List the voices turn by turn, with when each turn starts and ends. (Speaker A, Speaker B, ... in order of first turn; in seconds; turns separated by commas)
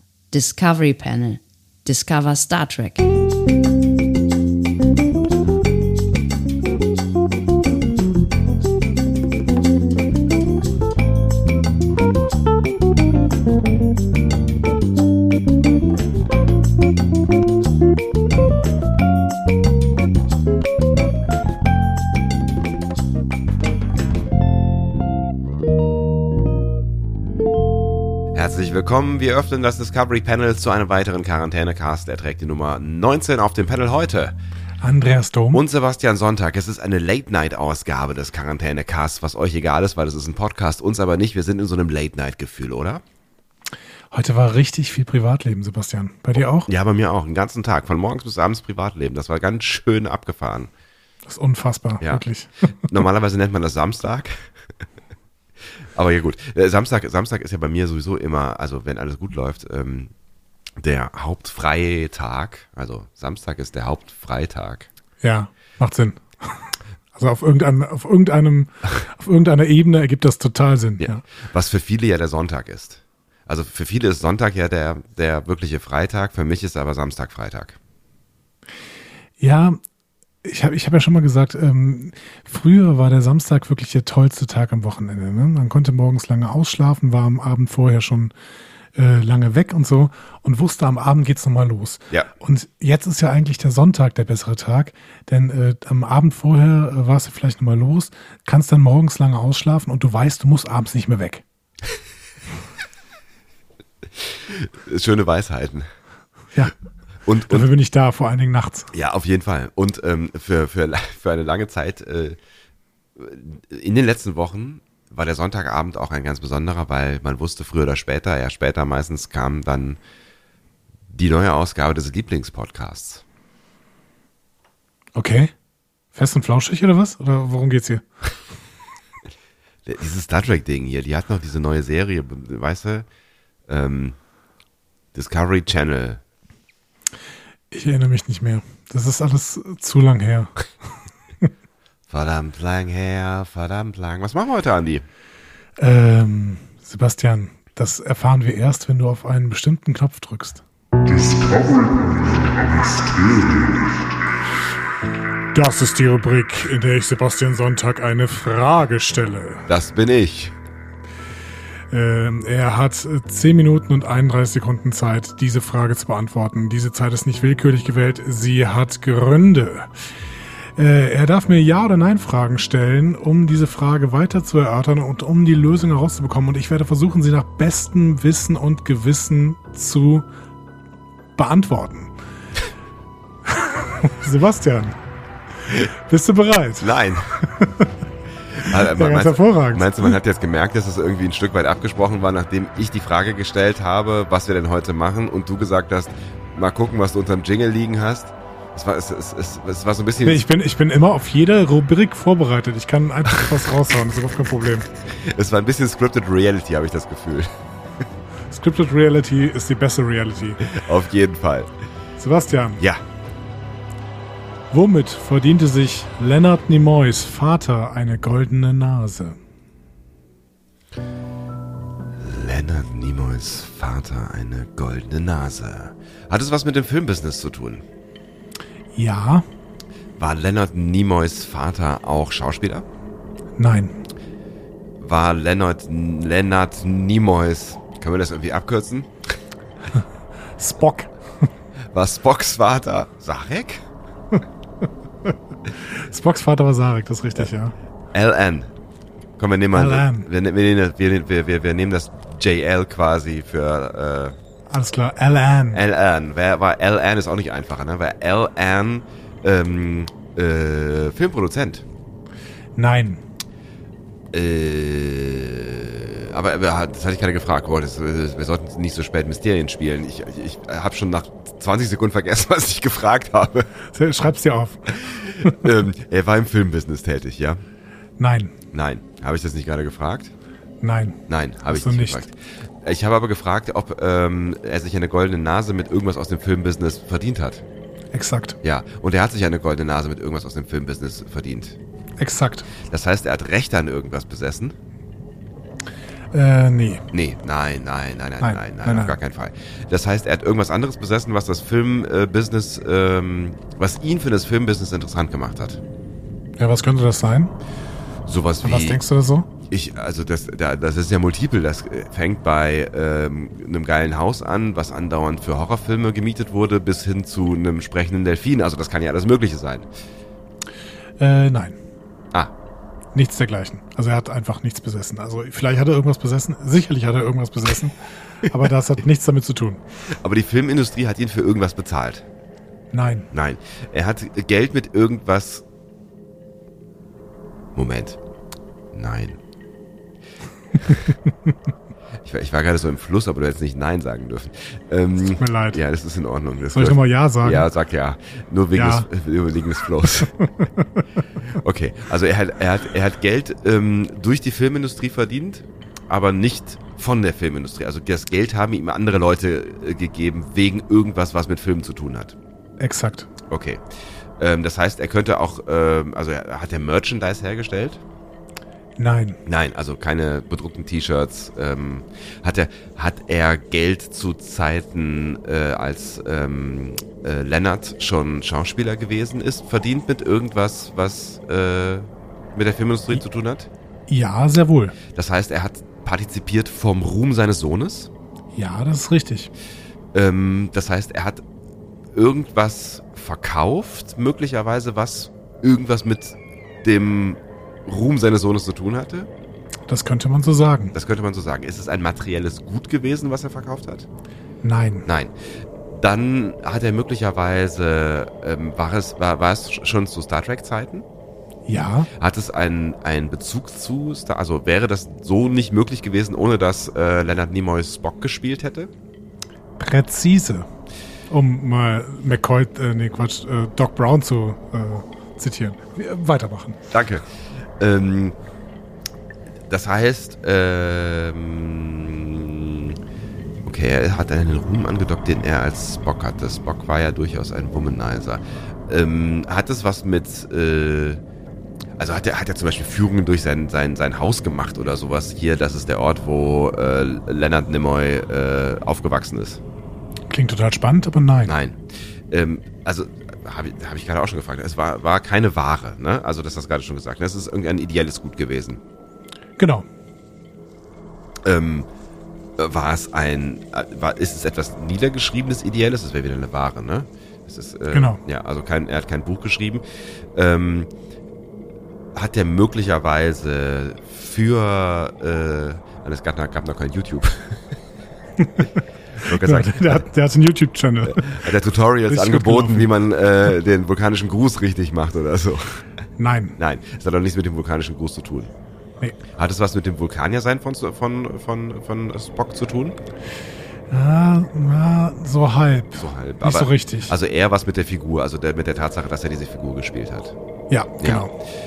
Speaker A: 0.3-3.0, Speaker B: 28.3-34.3, Speaker C: 34.8-35.6, Speaker B: 35.5-43.0, Speaker C: 44.1-46.7, Speaker B: 46.6-50.7, Speaker C: 51.2-52.9, Speaker B: 52.8-54.3, Speaker B: 55.9-60.1, Speaker B: 60.8-64.9, Speaker C: 65.2-71.2, Speaker B: 71.0-77.8, Speaker C: 79.4-79.8, Speaker C: 80.4-88.3, Speaker C: 89.0-101.4, Speaker B: 104.5-105.8, Speaker B: 107.2-107.7, Speaker C: 107.5-108.9, Speaker B: 108.9-112.4, Speaker B: 113.2-120.0, Speaker B: 121.1-123.2, Speaker C: 125.2-125.5, Speaker C: 126.1-128.0, Speaker B: 129.8-133.1, Speaker B: 133.7-134.2, Speaker B: 135.1-136.2, Speaker C: 137.7-140.5, Speaker B: 142.1-145.0, Speaker C: 145.8-150.6, Speaker B: 151.1-154.0, Speaker C: 155.5-159.7, Speaker B: 159.7-160.5, Speaker C: 161.9-169.9, Speaker C: 170.8-180.3, Speaker C: 181.4-182.1, Speaker C: 183.5-184.9, Speaker C: 185.7-187.9, Speaker B: 186.8-187.3, Speaker B: 188.6-200.4, Speaker C: 188.6-190.2, Speaker C: 200.2-204.9, Speaker B: 205.3-207.5, Speaker C: 208.5-210.6, Speaker B: 210.6-211.7, Speaker C: 212.2-212.8, Speaker C: 214.7-219.4, Speaker B: 222.2-227.8, Speaker C: 228.9-229.4, Speaker B: 230.2-232.8, Speaker C: 233.6-234.0, Speaker B: 235.0-239.1, Speaker C: 240.6-241.1, Speaker B: 241.9-243.8, Speaker C: 245.7-247.7, Speaker B: 248.1-248.7, Speaker B: 249.4-254.3, Speaker C: 249.7-250.3, Speaker C: 254.7-255.8, Speaker B: 255.7-261.8, Speaker C: 262.8-263.2, Speaker B: 264.3-273.7, Speaker C: 273.9-275.7, Speaker B: 274.9-277.6, Speaker C: 278.2-278.5, Speaker B: 278.7-280.3, Speaker C: 280.8-282.3, Speaker B: 281.3-287.6, Speaker C: 288.1-288.6, Speaker B: 288.6-291.8, Speaker C: 292.2-292.7, Speaker B: 292.9-294.8, Speaker C: 296.3-297.0, Speaker B: 297.1-305.8, Speaker C: 298.4-299.2, Speaker C: 306.6-307.5, Speaker B: 308.3-309.0, Speaker C: 308.6-309.5, Speaker B: 309.7-319.9, Speaker C: 321.2-321.8, Speaker C: 323.1-329.8, Speaker B: 330.2-332.2, Speaker C: 332.9-333.3, Speaker B: 333.3-335.6, Speaker B: 337.7-338.2, Speaker B: 338.9-339.4, Speaker B: 342.2-350.4, Speaker C: 345.2-345.8, Speaker C: 346.6-347.7, Speaker C: 348.7-349.1, Speaker B: 351.5-362.3, Speaker C: 362.8-363.3, Speaker B: 363.5-363.8, Speaker B: 364.4-368.0, Speaker C: 369.0-369.4, Speaker B: 369.4-383.7, Speaker C: 384.1-384.9, Speaker B: 385.1-388.1, Speaker C: 388.5-389.5, Speaker B: 390.1-391.4, Speaker B: 392.1-399.3, Speaker C: 399.9-400.9, Speaker B: 400.9-404.1, Speaker C: 404.6-405.1, Speaker B: 405.0-405.3, Speaker B: 405.9-411.1, Speaker C: 411.6-412.1, Speaker B: 412.2-418.9, Speaker C: 419.8-420.6, Speaker C: 421.3-426.8, Speaker B: 426.9-427.2, Speaker B: 427.8-428.3, Speaker B: 429.7-432.9, Speaker B: 433.6-441.2, Speaker B: 442.0-449.6, Speaker C: 450.3-451.6, Speaker B: 451.4-451.8, Speaker B: 452.3-458.8, Speaker C: 459.6-459.8, Speaker B: 461.4-461.9, Speaker B: 462.6-469.8, Speaker C: 467.9-468.2, Speaker B: 470.3-470.9, Speaker B: 472.1-477.6, Speaker C: 478.4-478.7, Speaker B: 479.2-480.1, Speaker C: 479.3-481.5, Speaker B: 481.0-485.8, Speaker C: 482.1-482.9, Speaker C: 486.2-486.6, Speaker B: 486.6-488.5, Speaker B: 489.4-493.0, Speaker C: 493.9-497.1, Speaker B: 495.9-500.3, Speaker C: 500.7-501.3, Speaker B: 501.0-501.3